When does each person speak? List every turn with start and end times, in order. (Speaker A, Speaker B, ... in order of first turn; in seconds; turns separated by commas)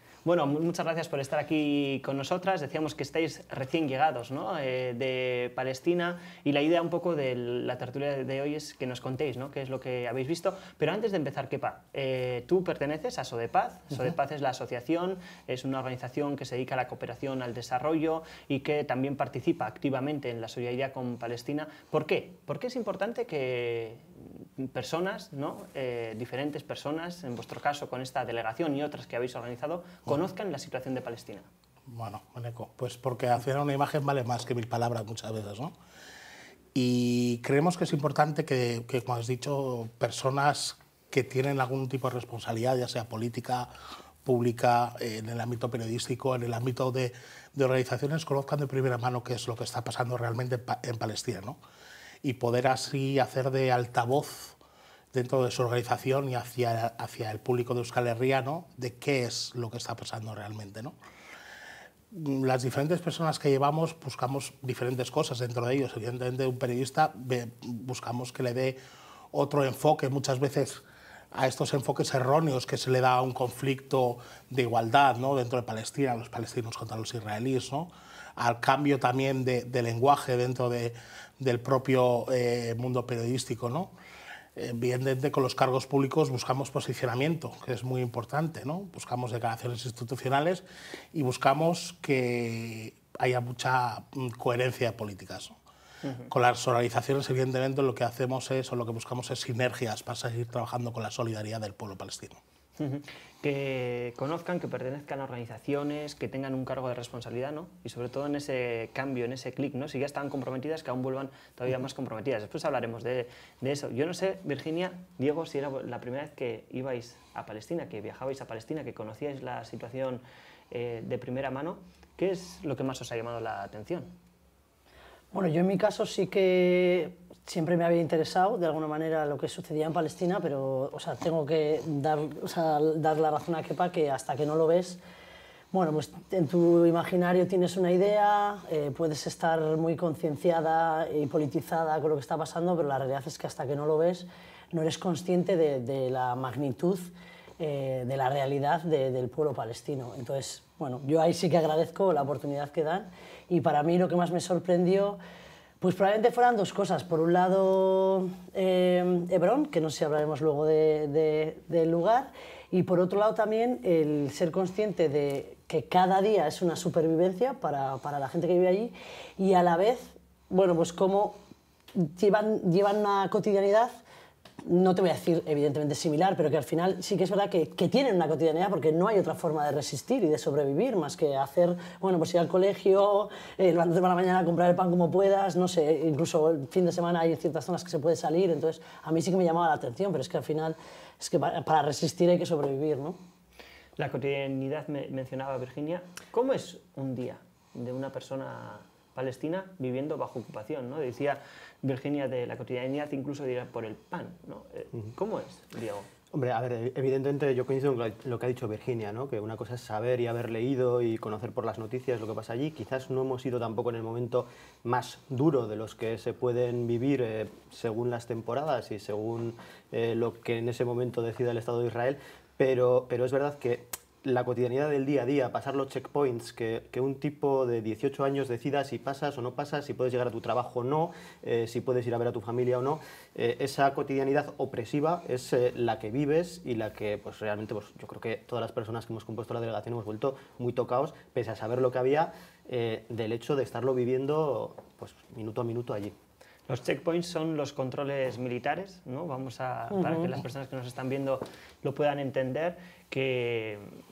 Speaker A: 0.2-31.5, Speaker B: 31.9-35.7, Speaker B: 36.7-43.7, Speaker B: 44.2-51.6, Speaker B: 52.2-54.6, Speaker B: 55.1-60.9, Speaker B: 62.1-68.8, Speaker B: 69.3-83.9, Speaker B: 84.5-95.5, Speaker A: 96.0-96.3, Speaker B: 96.3-102.4, Speaker A: 102.8-124.1, Speaker C: 125.3-135.0, Speaker C: 135.7-155.2, Speaker C: 155.8-171.4, Speaker C: 171.9-174.0, Speaker C: 174.6-193.2, Speaker A: 194.0-206.1, Speaker D: 206.3-246.1, Speaker A: 246.7-254.0, Speaker C: 249.9-250.4